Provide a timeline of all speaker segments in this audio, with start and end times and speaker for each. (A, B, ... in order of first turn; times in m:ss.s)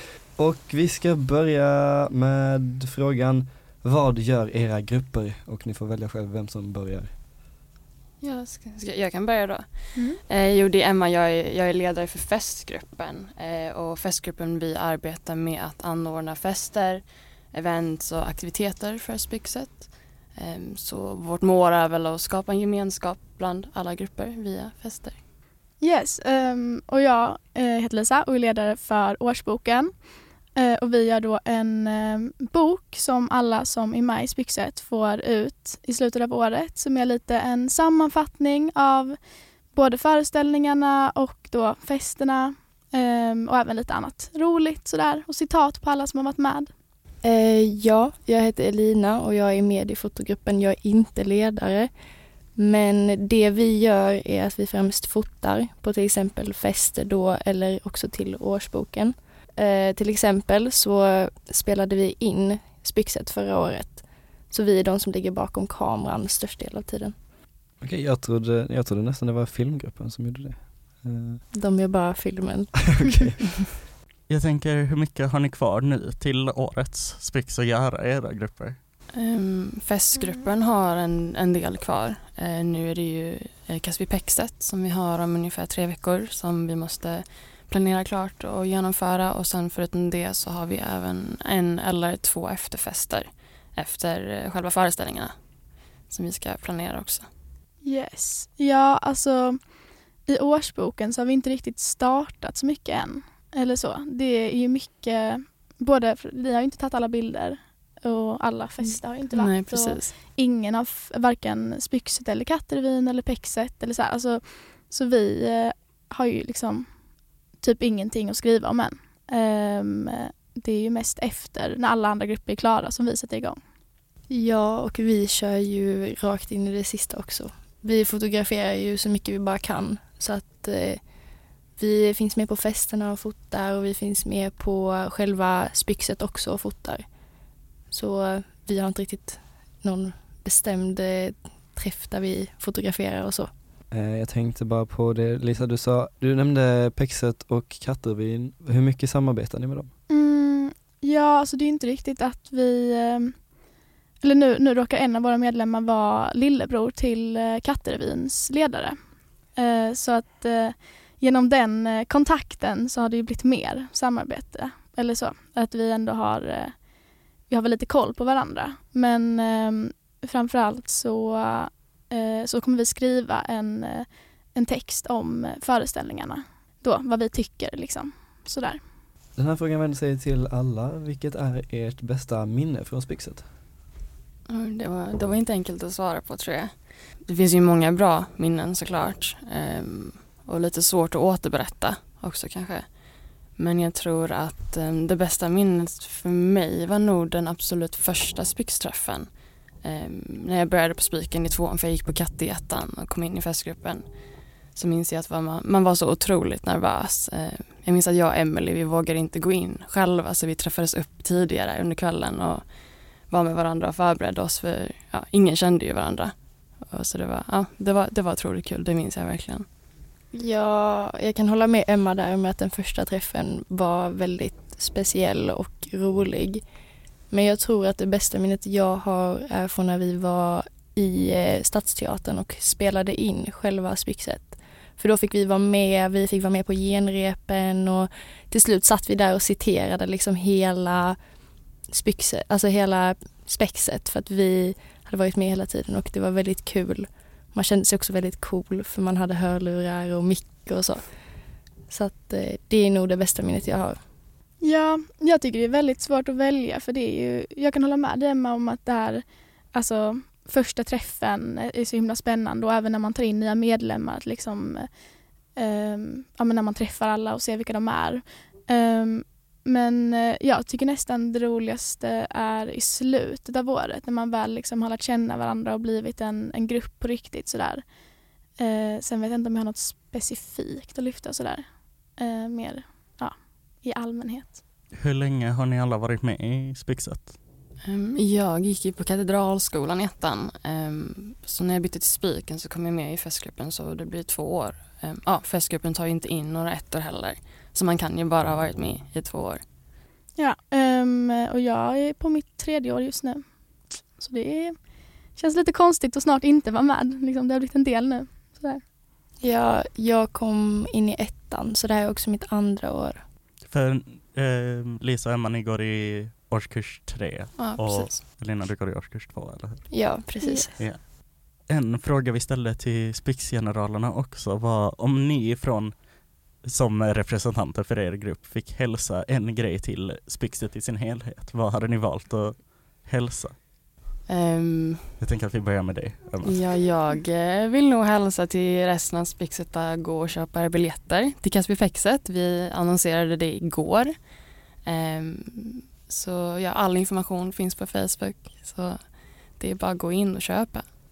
0:00.4-0:07.1 A
0:08.2-0:25.2 B
0:25.8-0:46.7 C
0:47.2-0:51.9 D
0:52.6-1:07.1 D
1:07.8-1:11.4 A
1:11.5-1:13.1 D
1:13.0-1:13.3 A
1:14.3-1:18.8 E
1:19.1-1:35.4 B
1:36.0-1:37.3 B
1:37.8-2:03.6 C
1:49.3-1:50.2 B
2:04.3-2:11.1 D
2:11.7-2:17.1 D
2:17.9-2:23.5 D
2:23.9-2:29.9 A
2:30.1-2:33.5 C
2:34.2-2:58.8 C
2:59.4-3:03.5 A
3:04.5-3:39.7 B
3:40.3-3:46.6 D
3:47.3-4:01.3 D
4:01.8-4:11.2 D
4:11.9-4:14.0 D
4:14.6-4:25.0 C
4:25.5-4:38.0 C
4:38.6-4:44.6 C
4:44.9-4:47.4 E
4:47.8-4:59.6 B
5:00.4-5:08.8 C
5:09.4-5:13.2 D
5:13.6-5:20.2 E
5:17.6-5:18.2 B
5:19.9-5:20.7 D
5:20.4-5:20.7 C
5:20.8-5:33.6 E
5:34.3-5:35.2 B
5:35.2-5:36.6 E
5:36.4-5:50.9 B